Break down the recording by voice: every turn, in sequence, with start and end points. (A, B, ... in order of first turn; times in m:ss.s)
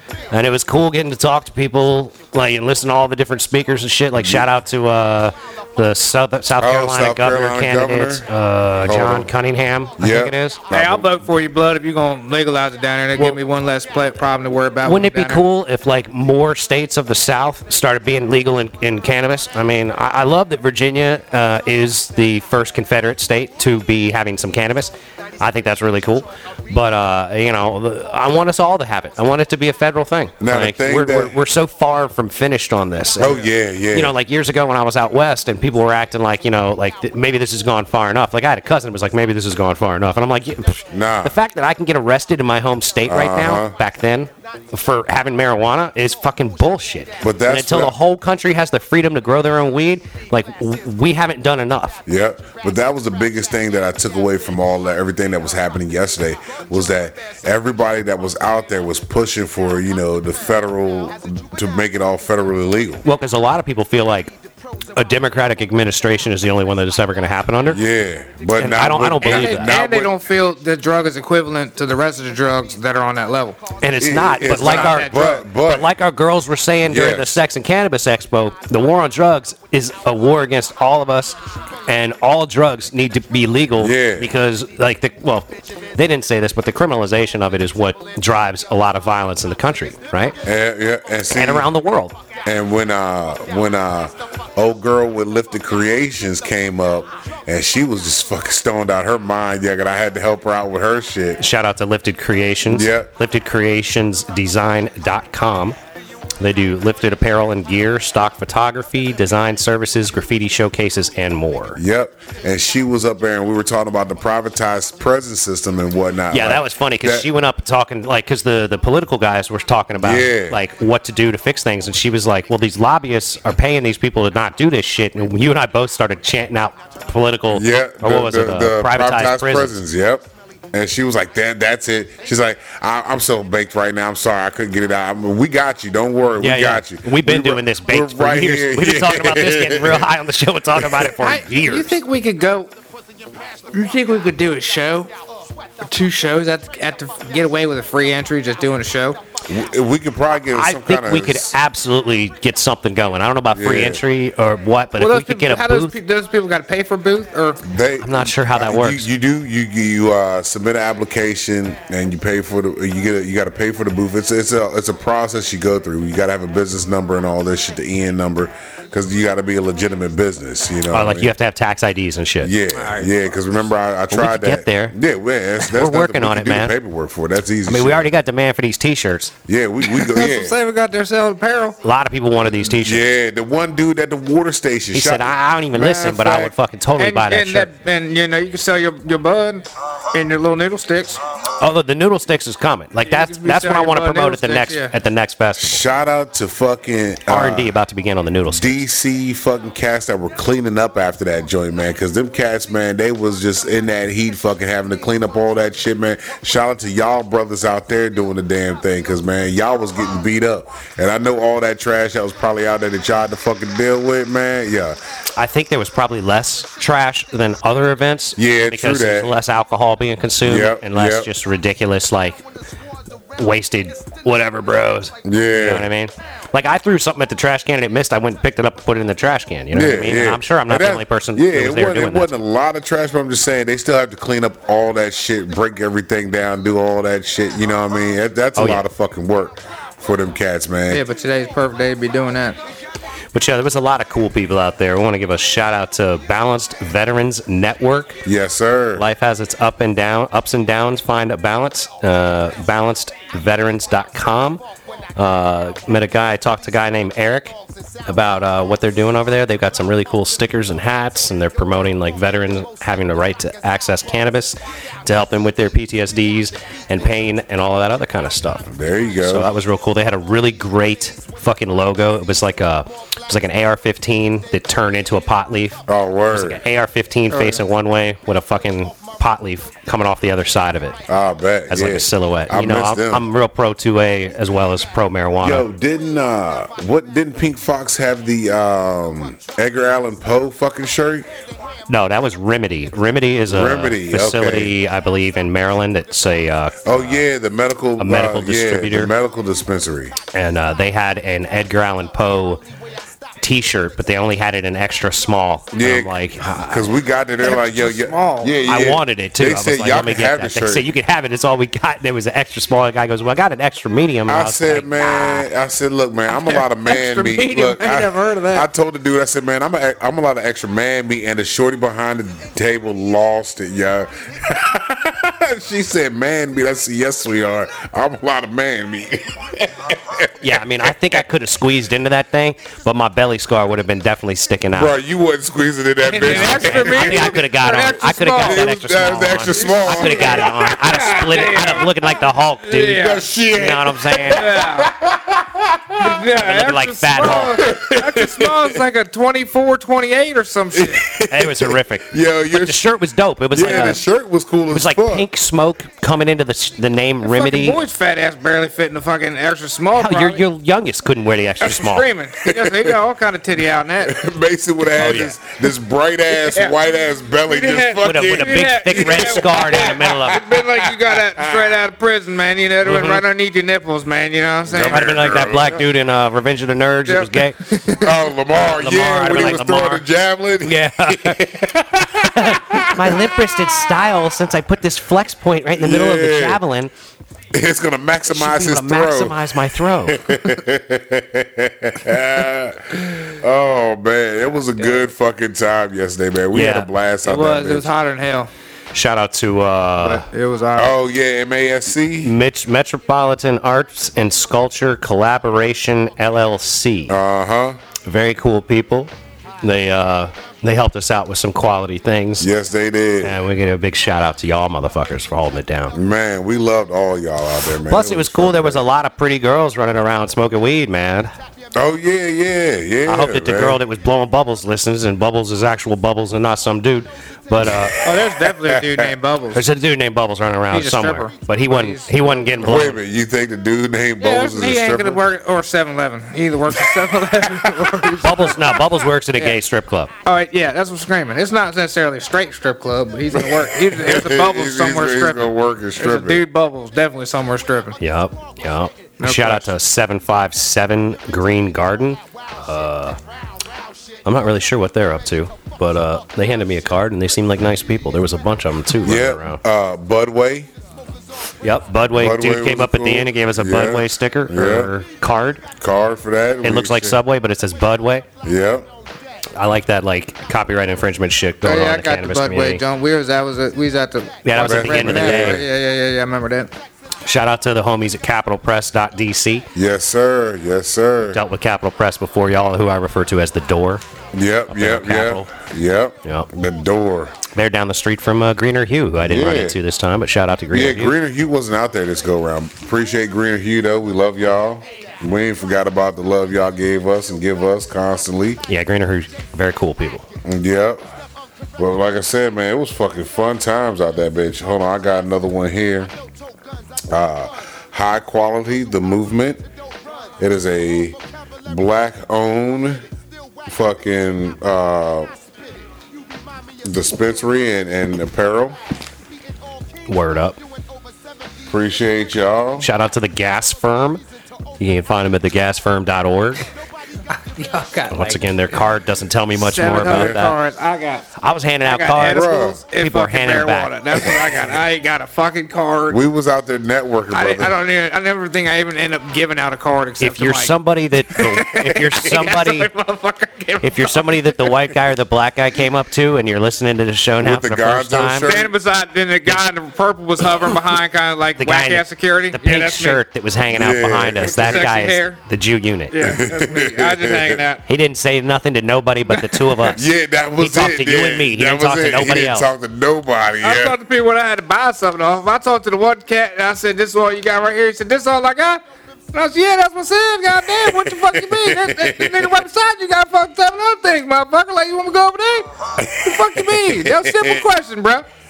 0:00.3-0:10.6 A
0:04.2-0:04.4 B
0:06.6-0:08.2 B
0:08.8-0:09.3 B
0:10.0-0:11.1 B
0:10.7-0:15.4 C
0:14.8-0:52.0 A
0:30.4-0:31.3 B
0:33.2-0:34.1 B
0:40.9-0:41.4 B
0:43.0-0:43.8 B
0:47.2-0:47.9 B
0:52.0-1:03.0 B
1:03.0-1:04.3 A
1:04.9-1:07.8 A
1:07.7-1:10.1 B
1:08.6-1:09.7 A
1:09.2-1:13.6 C
1:13.8-1:30.4 A
1:14.0-1:15.9 B
1:14.5-1:15.5 C
1:16.8-1:17.4 B
1:23.8-1:24.3 B
1:30.4-1:31.7 B
1:31.3-1:32.2 A
1:32.4-1:41.4 B
1:41.4-1:45.8 A
1:42.7-1:43.1 B
1:46.4-1:51.8 A
1:51.7-1:57.3 B
1:56.3-2:09.7 A
2:00.0-2:00.6 B
2:07.5-2:20.1 B
2:16.4-2:22.0 A
2:20.8-2:21.1 B
2:21.2-2:22.7 C
2:23.7-2:25.1 C
2:25.8-2:29.2 C
2:29.5-2:31.5 B
2:30.5-2:35.9 A
2:33.5-2:34.0 B
2:35.0-2:37.6 C
2:37.6-2:51.3 B
2:38.0-2:39.1 A
2:50.9-2:52.5 A
2:52.4-2:58.1 B
2:52.7-2:53.1 C
2:54.1-2:54.9 A
2:55.6-2:56.7 A
2:57.7-2:59.3 A
2:59.4-3:00.6 B
2:59.9-3:01.8 C
3:01.8-3:03.1 A
3:02.7-3:05.4 B
3:04.9-3:07.7 A
3:05.8-3:11.2 C
3:11.6-3:15.8 A
3:13.0-3:14.9 C
3:15.6-3:17.8 B
3:17.3-3:18.8 A
3:18.5-3:35.0 B
3:35.4-3:42.4 A
3:38.4-3:39.3 B
3:40.4-3:41.3 B
3:43.4-3:52.3 A
3:45.2-3:45.9 B
3:49.7-4:01.0 B
3:58.6-3:58.8 A
4:00.9-4:02.6 C
4:03.3-4:08.2 A
4:08.2-4:09.0 B
4:09.0-4:14.6 A
4:15.2-4:28.7 A
4:28.6-4:29.5 B
4:29.2-4:41.0 A
4:35.9-4:36.6 B
4:37.3-4:37.6 C
4:41.1-4:43.2 B
4:41.7-4:45.6 A
4:45.4-4:51.3 B
4:51.9-4:57.2 A
4:53.5-4:54.8 B
4:56.8-5:00.2 B
4:58.0-4:59.1 A
5:00.3-5:02.6 A
5:03.4-5:06.8 A
5:05.7-5:10.9 B
5:07.4-5:08.5 C
5:08.6-5:15.5 A
5:14.3-5:31.2 B
5:16.3-5:18.7 C
5:30.4-5:34.9 A
5:34.7-5:37.4 B
5:36.0-5:38.7 C
5:36.2-5:44.5 A
5:38.4-5:41.0 B
5:39.5-5:42.0 C
5:42.6-5:43.3 C
5:42.8-5:46.2 B
5:44.3-5:44.9 C
5:46.0-5:51.0 C
5:46.3-5:47.6 A
5:47.4-5:48.8 B
5:50.7-5:52.8 B
5:51.3-5:54.0 A
5:53.5-5:55.3 B
5:53.6-5:54.0 C
5:54.7-5:57.8 A
5:57.2-6:00.4 C
5:59.9-6:02.1 A
6:01.6-6:04.2 C
6:02.4-6:03.0 B
6:04.0-6:11.7 B
6:05.0-6:05.3 A
6:06.4-6:06.8 C
6:07.4-6:15.2 C
6:08.0-6:10.4 A
6:12.8-6:13.2 A
6:14.7-6:15.8 B
6:14.8-6:17.6 A
6:17.1-6:18.2 C
6:18.0-6:23.4 B
6:18.6-6:20.0 A
6:20.6-6:21.6 A
6:22.2-6:26.9 A
6:25.8-6:26.6 B
6:27.5-6:37.9 B
6:28.3-6:30.3 A
6:36.5-6:36.9 A
6:37.2-6:38.5 C
6:38.9-6:40.2 A
6:40.0-6:41.0 C
6:40.8-6:42.3 B
6:42.2-6:47.2 A
6:47.1-6:47.8 B
6:48.0-6:52.5 A
6:52.4-6:53.4 B
6:53.2-6:55.9 A
6:55.9-6:58.8 B
6:57.9-7:01.3 A
7:01.7-7:03.8 B
7:03.0-7:08.0 A
7:07.6-7:09.1 B
7:08.0-7:09.7 C
7:09.5-7:13.0 A
7:10.7-7:12.5 C
7:12.6-7:15.2 B
7:14.2-7:19.6 C
7:16.8-7:17.9 B
7:18.2-7:20.1 A
7:20.2-7:28.0 C
7:23.3-7:26.4 B
7:28.0-7:33.2 A
7:29.2-7:29.7 C
7:34.2-7:39.6 A
7:39.0-7:40.7 B
7:41.6-7:45.6 A
7:42.1-7:44.9 B
7:45.8-7:47.2 B
7:46.6-7:48.2 A
7:48.4-7:48.9 B
7:49.6-7:52.8 A
7:51.6-7:56.7 C
7:54.4-7:55.6 A
7:54.6-7:55.6 B
7:57.2-7:59.7 A
7:59.7-8:01.4 B
8:01.3-8:04.0 A
8:04.3-8:07.4 B
8:04.7-8:05.5 A
8:07.5-8:11.2 A
8:09.2-8:09.8 B
8:10.7-8:18.6 B
8:18.6-8:20.2 A
8:20.4-8:21.0 B
8:21.8-8:26.1 B
8:27.1-8:29.6 B
8:30.4-8:33.0 B
8:33.6-8:35.3 B
8:36.8-8:38.8 B
8:40.1-8:40.6 A
8:41.7-8:42.9 B
8:42.8-8:44.2 A
8:44.8-8:46.6 A
8:47.4-8:48.4 C
8:48.1-8:50.6 A
8:49.6-8:51.3 C
8:50.0-8:50.4 B
8:51.4-8:53.9 A
8:51.8-8:56.2 C
8:52.2-8:52.8 B
8:56.1-8:57.8 B
8:57.3-9:00.7 C
9:00.2-9:02.9 A
9:01.3-9:04.6 C
9:03.8-9:08.5 A
9:07.4-9:08.7 B
9:08.4-9:13.2 C
9:11.6-9:16.4 A
9:13.7-9:14.9 B
9:14.4-9:15.4 C
9:16.1-9:17.8 C
9:16.2-9:17.6 B
9:17.8-9:20.0 A
9:19.8-9:24.0 B
9:20.6-9:22.7 A
9:23.6-9:28.8 C
9:29.3-9:38.2 C
9:30.8-9:32.6 B
9:36.0-9:37.6 B